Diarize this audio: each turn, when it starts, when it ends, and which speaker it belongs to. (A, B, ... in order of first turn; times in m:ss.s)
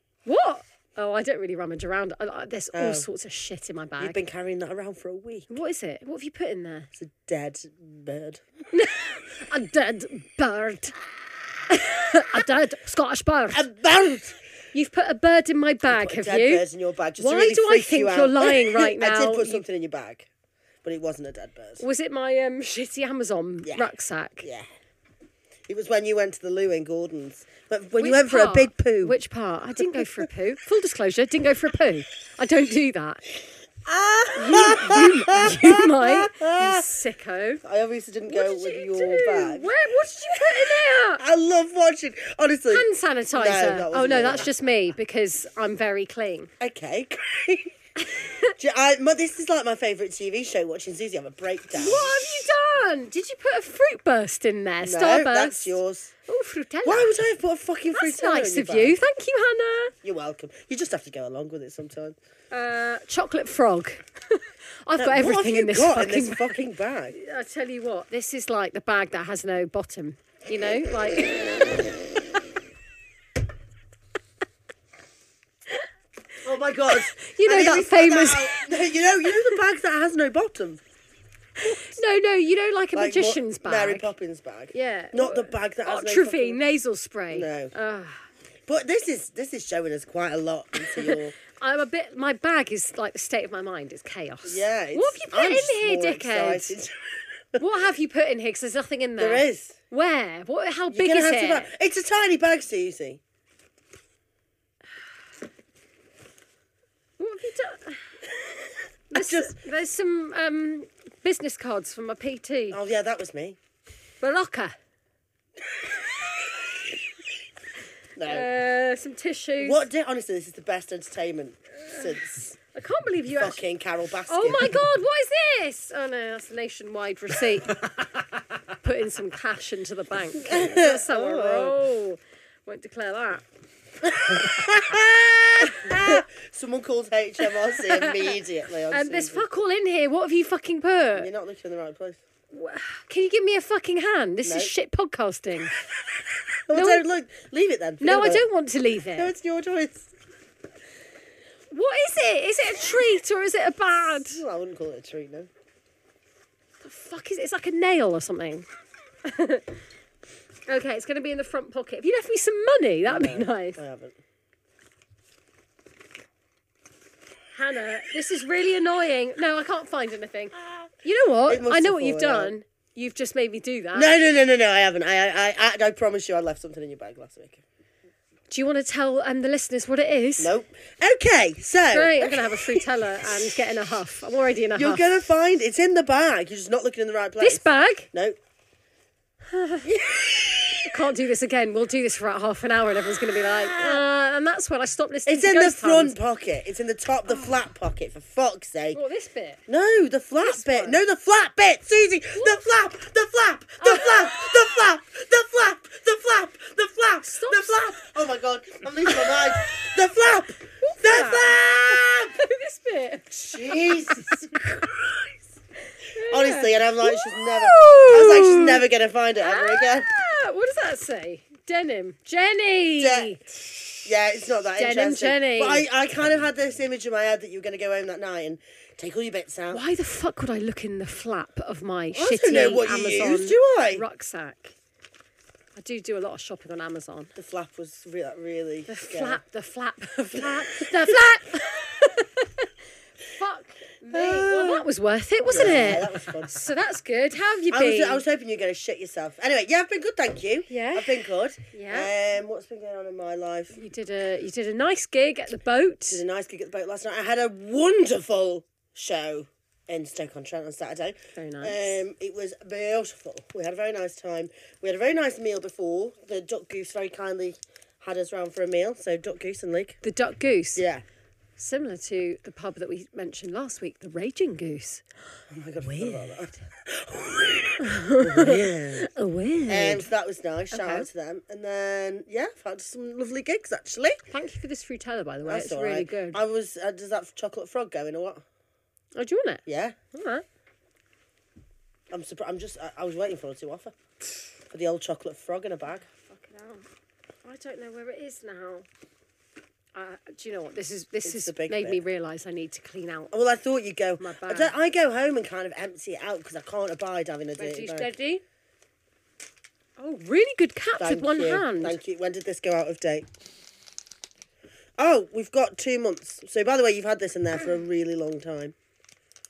0:00.3-0:04.2 A
0:02.7-0:03.1 B
0:04.0-0:05.6 B
0:05.5-0:06.9 A
0:07.0-0:08.4 B
0:08.7-0:11.0 A
0:11.7-0:13.7 A
0:13.5-0:14.4 B
0:14.7-0:16.7 A
0:15.9-0:20.3 B
0:17.2-0:19.6 A
0:20.8-0:21.8 B
0:21.8-0:24.5 A
0:23.6-0:23.9 B
0:25.7-0:29.2 B
0:28.0-0:33.2 A
0:33.8-0:36.9 B
0:34.3-0:37.6 A
0:37.6-0:39.7 B
0:38.3-0:41.2 A
0:41.2-0:44.5 B
0:42.7-0:46.5 A
0:46.6-0:47.8 B
0:48.1-0:48.5 A
0:48.5-0:52.5 B
0:51.7-0:57.1 A
0:54.8-0:56.1 B
0:56.8-0:59.0 B
0:57.9-0:59.9 A
1:00.0-1:02.2 B
1:02.5-1:11.9 A
1:05.0-1:07.2 B
1:16.4-1:20.8 B
1:16.9-1:18.7 A
1:21.6-1:24.1 A
1:22.9-1:26.6 B
1:24.7-1:28.2 A
1:27.3-1:27.7 B
1:28.7-1:31.4 B
1:31.0-1:36.8 A
1:34.5-1:37.6 B
1:37.6-1:41.7 A
1:39.2-1:39.8 B
1:40.9-1:43.2 B
1:47.2-1:48.0 A
1:49.1-1:52.8 A
1:49.1-1:49.6 B
1:52.7-1:53.6 B
1:54.2-1:54.8 A
1:58.2-1:58.5 B
1:58.2-1:59.9 A
1:59.6-2:02.6 B
2:02.7-2:03.6 A
2:03.4-2:04.9 B
2:04.3-2:07.8 A
2:08.8-2:13.4 A
2:10.4-2:11.8 B
2:14.0-2:19.5 B
2:15.6-2:16.2 A
2:17.6-2:18.4 A
2:18.9-2:21.3 A
2:21.2-2:22.2 B
2:22.5-2:25.8 A
2:24.4-2:24.7 B
2:25.9-2:28.5 B
2:26.7-2:27.0 A
2:28.0-2:29.3 A
2:29.2-2:30.1 B
2:31.7-2:34.4 A
2:34.3-2:35.5 B
2:36.8-2:38.7 A
2:39.2-2:39.8 A
2:40.7-2:43.8 A
2:43.1-2:44.2 B
2:47.5-2:54.2 A
2:51.5-2:52.6 B
2:53.9-2:57.6 B
2:58.5-3:00.5 A
3:00.4-3:03.5 B
3:01.9-3:05.1 A
3:04.8-3:08.4 B
3:07.4-3:08.1 A
3:09.5-3:09.9 A
3:09.8-3:10.9 B
3:10.9-3:16.2 A
3:13.4-3:14.0 B
3:15.3-3:19.0 B
3:17.3-3:17.5 A
3:18.9-3:19.6 A
3:19.7-3:32.4 B
3:20.4-3:21.0 A
3:22.4-3:22.6 A
3:23.8-3:24.8 A
3:27.2-3:28.0 A
3:29.1-3:30.0 A
3:30.8-3:34.8 A
3:33.5-3:35.2 B
3:36.1-3:38.8 A
3:36.2-3:40.1 B
3:39.4-3:44.1 A
3:43.0-3:43.4 B
3:44.0-3:49.8 B
3:44.8-3:45.9 A
3:49.7-3:54.8 A
3:52.1-3:54.0 B
3:55.8-3:57.3 A
3:57.4-3:59.4 B
3:58.9-4:02.7 A
4:03.3-4:08.2 A
4:04.1-4:04.9 B
4:05.5-4:06.6 B
4:07.7-4:13.8 B
4:10.7-4:12.1 A
4:13.7-4:16.2 A
4:16.1-4:30.0 B
4:21.3-4:22.0 A
4:30.0-4:30.8 A
4:30.8-4:31.0 B
4:31.6-4:35.0 A
4:35.5-4:39.1 B
4:35.8-4:36.6 A
4:37.8-4:40.1 A
4:39.7-4:44.2 B
4:40.7-4:41.1 A
4:44.3-4:46.4 A
4:45.4-4:48.4 B
4:49.2-4:50.4 A
4:49.7-4:50.0 B
4:52.1-4:53.9 B
4:54.7-4:56.0 B
4:56.0-4:56.9 A
4:57.4-4:58.9 A
4:59.9-5:03.3 A
5:01.2-5:02.0 B
5:03.3-5:08.1 B
5:04.2-5:04.7 A
5:07.6-5:08.4 A
5:10.0-5:12.0 A
5:11.0-5:13.3 B
5:15.0-5:18.7 B